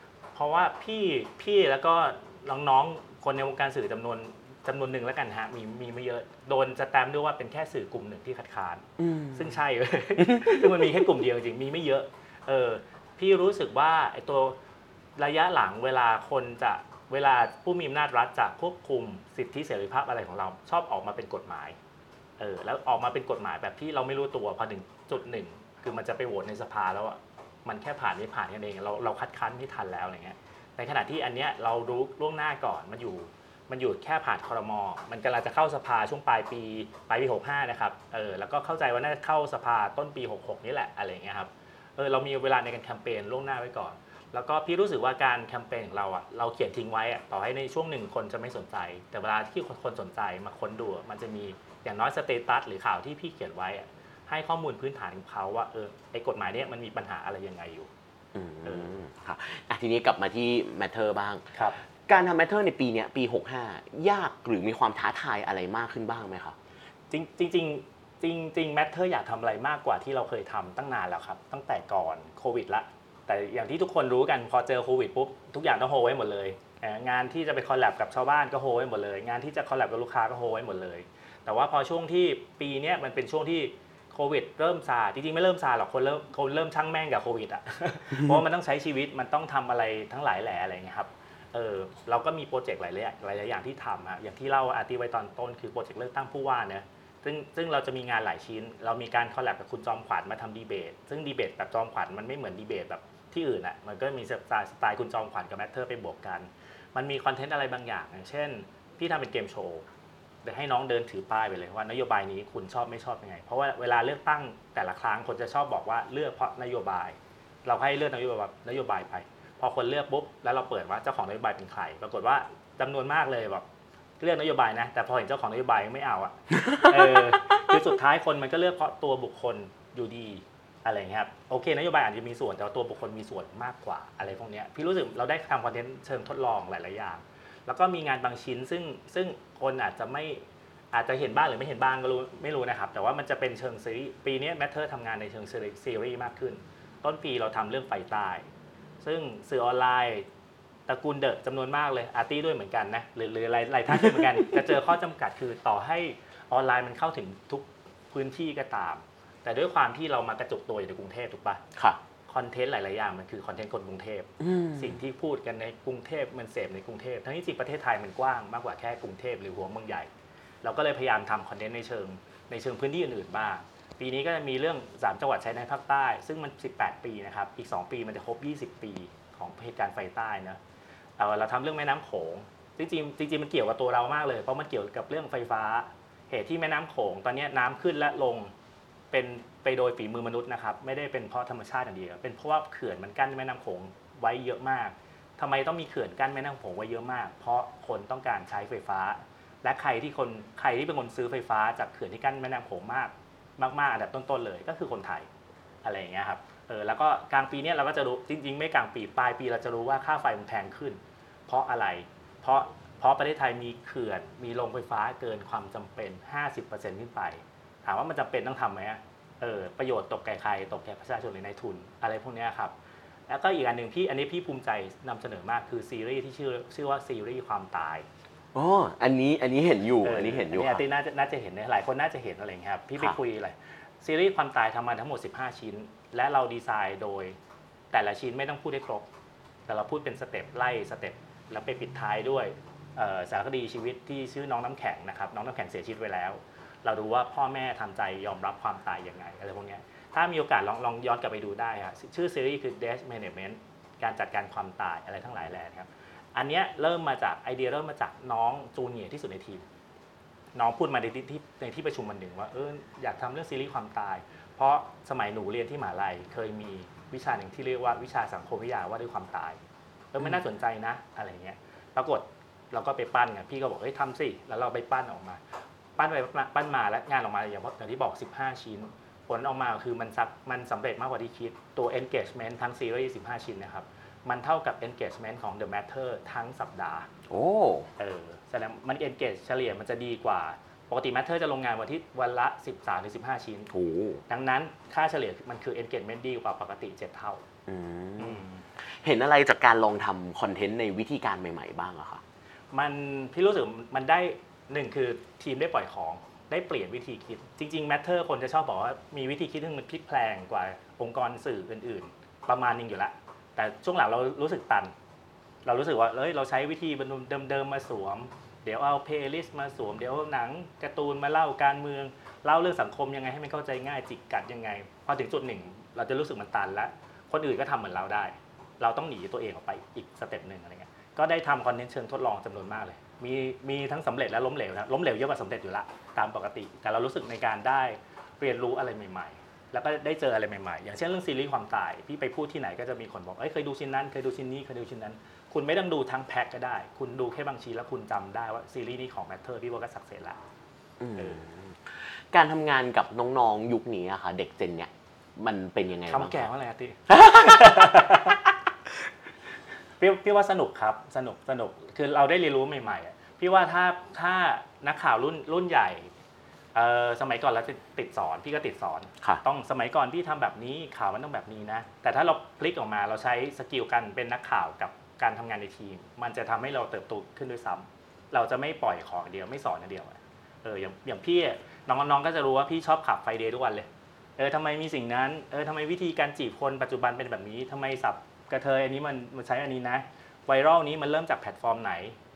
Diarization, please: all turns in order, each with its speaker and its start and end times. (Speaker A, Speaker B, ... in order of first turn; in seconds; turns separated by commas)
Speaker A: 0.3-14.6, Speaker B: 9.0-9.5, Speaker B: 10.2-10.9, Speaker A: 15.2-21.8, Speaker A: 22.4-57.9, Speaker B: 58.3-61.5, Speaker A: 58.6-58.9, Speaker B: 62.0-66.5, Speaker A: 67.1-109.8, Speaker A: 110.4-123.7, Speaker A: 124.2-148.5, Speaker B: 126.7-127.2, Speaker A: 149.0-150.3, Speaker A: 150.9-161.6, Speaker B: 153.9-154.6, Speaker B: 161.7-162.0, Speaker A: 162.3-170.1, Speaker B: 164.4-165.0, Speaker A: 170.6-180.6, Speaker A: 181.2-188.5, Speaker A: 189.1-205.3, Speaker A: 205.8-222.7, Speaker A: 223.3-228.1, Speaker B: 228.5-230.8, Speaker A: 230.0-237.4, Speaker A: 237.9-239.1, Speaker A: 239.7-259.7, Speaker A: 260.5-269.6, Speaker A: 270.1-275.4, Speaker A: 276.0-287.1, Speaker B: 287.3-287.9, Speaker A: 288.0-293.7, Speaker B: 293.7-294.2, Speaker A: 294.3-297.4, Speaker B: 297.7-302.2, Speaker A: 298.2-298.6, Speaker A: 302.7-314.9, Speaker A: 315.6-350.4, Speaker B: 351.0-356.4, Speaker A: 351.2-351.4, Speaker A: 356.1-358.4, Speaker B: 357.1-358.4, Speaker A: 360.0-366.1, Speaker A: 366.7-392.2